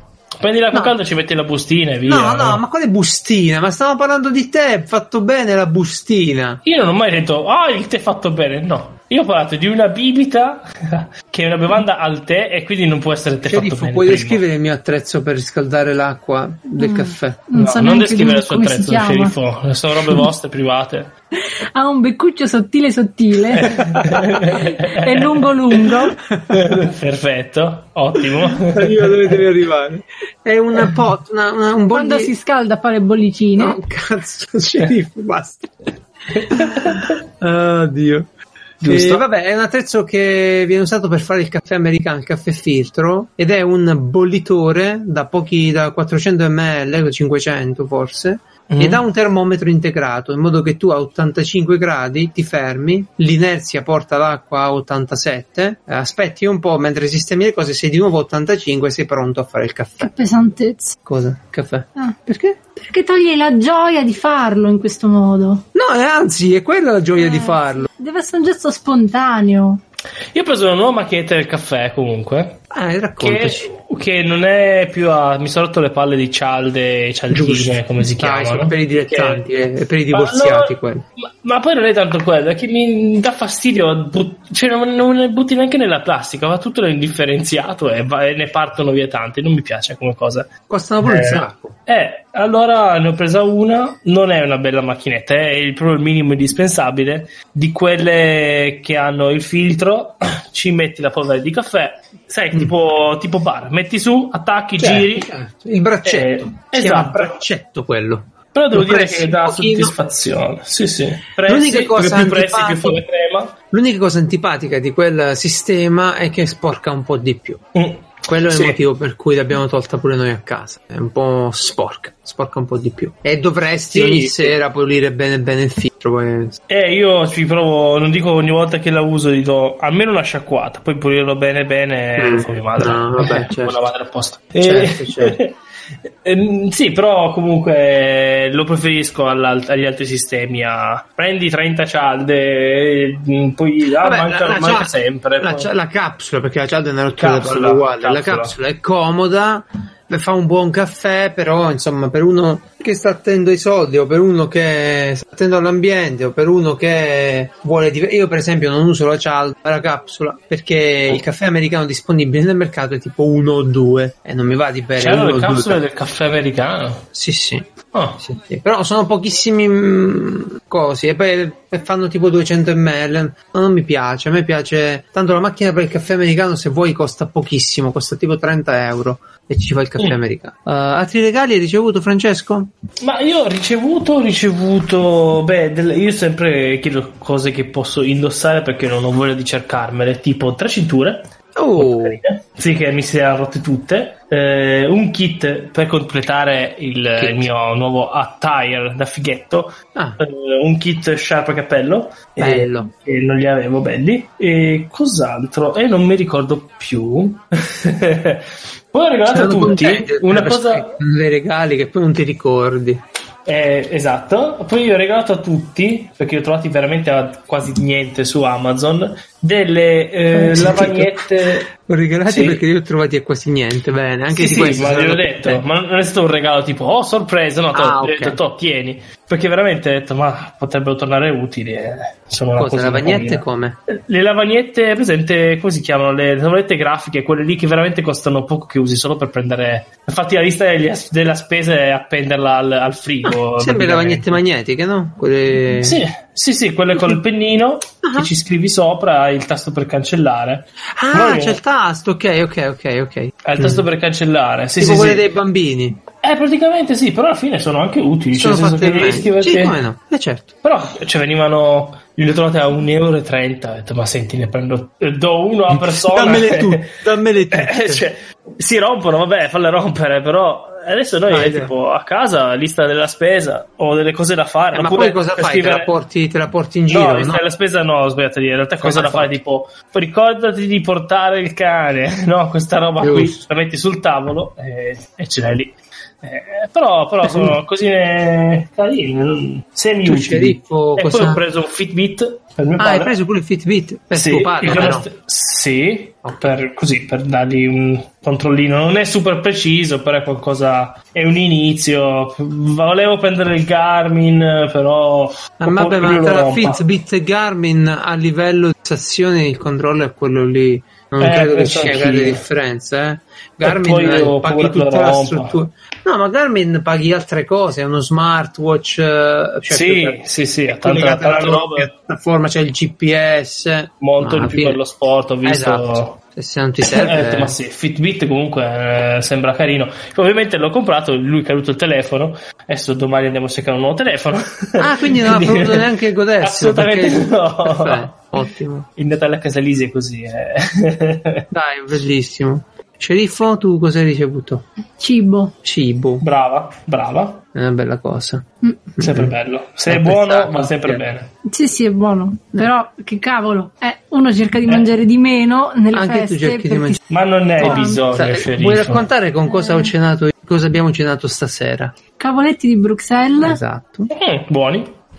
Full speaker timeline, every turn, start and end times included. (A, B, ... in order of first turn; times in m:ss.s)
0:00.4-0:02.6 A
0:02.1-0:06.6 B
0:06.6-0:14.4 A
0:13.5-0:17.5 B
0:16.8-0:19.4 C
0:17.6-0:21.1 A
0:21.5-0:23.8 C
0:23.6-0:25.4 A
0:24.5-0:26.2 C
0:26.4-0:26.8 B
0:26.5-0:29.3 A
0:28.6-0:32.3 B
0:31.9-0:33.8 C
0:33.6-0:35.8 B
0:36.4-0:37.2 A
0:36.4-0:38.3 B
0:38.8-0:39.2 A
0:38.8-1:00.1 B
0:48.7-0:49.0 A
1:00.0-1:01.0 C
1:01.0-1:02.6 B
1:02.8-1:05.6 C
1:05.7-1:07.9 B
1:07.2-1:09.8 C
1:10.3-1:12.6 A
1:12.7-1:13.7 B
1:13.2-1:19.4 A
1:17.3-1:21.0 B
1:20.1-1:30.5 A
1:30.7-1:31.8 B
1:31.0-1:45.3 A
1:44.8-1:50.0 B
1:46.0-1:47.4 A
1:48.5-1:53.6 A
1:51.4-1:53.0 B
1:53.7-1:57.6 B
1:57.8-1:58.8 A
1:58.3-2:06.6 B
2:03.9-2:04.6 A
2:06.7-2:15.5 A
2:12.2-2:13.9 B
2:14.6-2:15.4 B
2:16.2-2:25.7 A
2:24.0-2:45.8 B
2:27.2-2:28.5 A
2:45.0-2:47.0 A
2:47.1-3:02.7 B
2:47.9-2:48.2 A
3:03.0-3:31.0 A
3:11.6-3:12.2 B
3:17.2-3:17.5 B
3:22.4-3:22.9 B
3:29.3-3:33.0 B
3:33.5-3:41.7 A
3:40.3-3:45.6 B
3:42.3-3:42.6 A
3:44.3-4:04.4 A
3:47.7-3:48.4 B
3:52.6-3:53.8 B
4:03.2-4:06.0 B
4:05.8-4:11.6 A
4:08.0-4:08.3 B
4:10.9-4:13.9 B
4:13.4-4:15.3 A
4:14.8-4:16.0 B
4:16.2-4:19.8 A
4:18.4-4:20.5 B
4:20.6-4:27.0 A
4:25.7-4:28.0 B
4:27.5-4:35.9 A
4:31.3-4:31.7 B
4:34.7-4:37.4 B
4:36.9-4:53.1 A
4:38.8-4:39.4 B
4:43.0-4:43.4 B
4:47.2-4:47.6 B
4:50.0-4:51.4 B
4:52.8-4:55.1 B
4:54.1-5:06.8 A
4:56.2-4:56.5 B
5:05.6-5:24.8 B
5:11.2-5:12.4 A
5:13.6-5:15.6 A
5:19.7-5:21.9 A
5:24.0-5:26.2 A
5:25.4-5:27.6 B
5:26.8-5:38.3 A
5:34.8-5:38.9 B
5:39.0-5:41.5 A
5:41.5-5:44.6 B
5:45.0-5:45.5 C
5:45.6-5:46.2 B
5:46.2-5:47.4 A
5:47.5-5:48.5 B
5:49.0-5:49.3 B
5:49.0-5:51.3 A
5:49.9-5:51.0 B
5:51.4-5:57.0 C
5:55.9-5:57.0 B
5:57.1-5:59.1 A
5:57.6-6:01.9 B
5:57.6-5:58.0 C
5:59.5-5:59.9 C
6:02.2-6:03.6 C
6:03.4-6:04.1 B
6:04.1-6:04.9 A